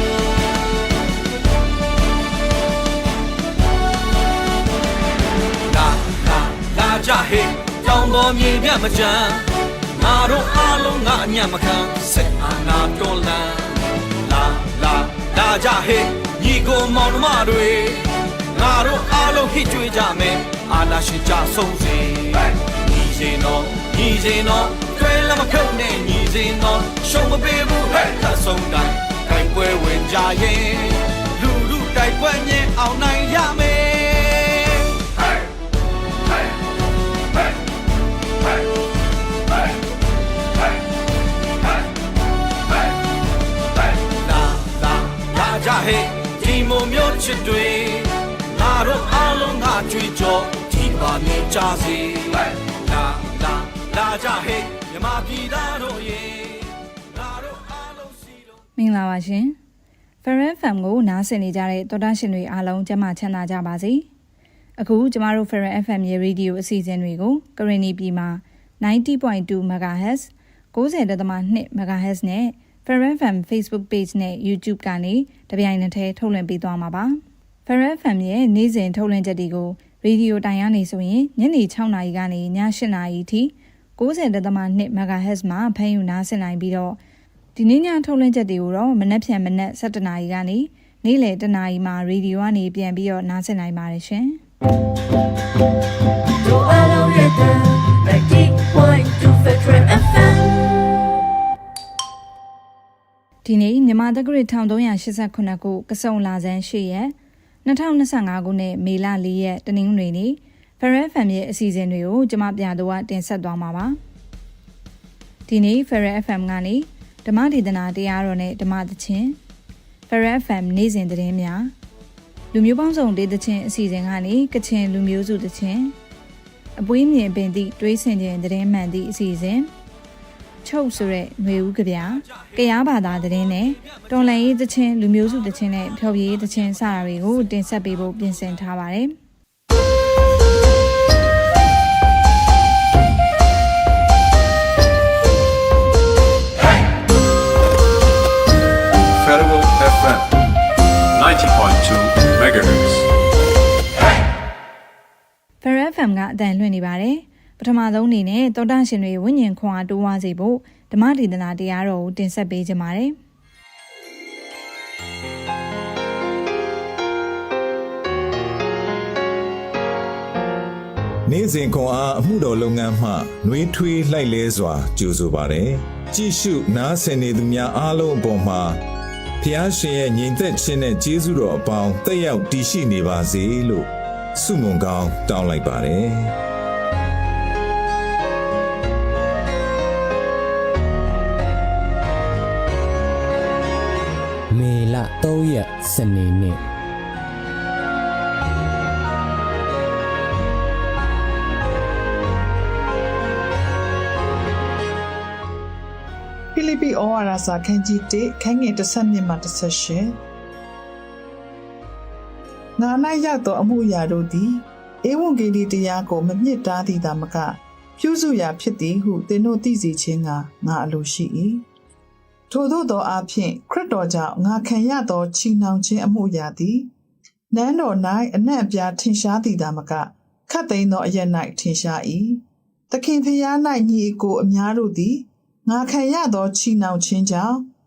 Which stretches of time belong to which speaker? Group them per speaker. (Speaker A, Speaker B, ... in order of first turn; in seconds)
Speaker A: 5.7-35.0, 44.0-58.4
Speaker B: 58.8-59.6, 60.2-64.1, 64.8-87.0, 87.6-94.4, 103.5-107.1, 107.7-114.0, 115.5-119.4, 120.1-121.7, 122.5-125.9, 126.8-129.7, 130.6-139.2, 155.6-163.2
Speaker C: 96.4-100.9
Speaker D: 149.2-150.3, 151.1-153.1
Speaker E: 171.3-178.8, 179.4-186.3
Speaker F: 194.5-196.6
Speaker G: 206.5-210.2, 212.8-221.6, 222.5-226.9, 227.5-237.7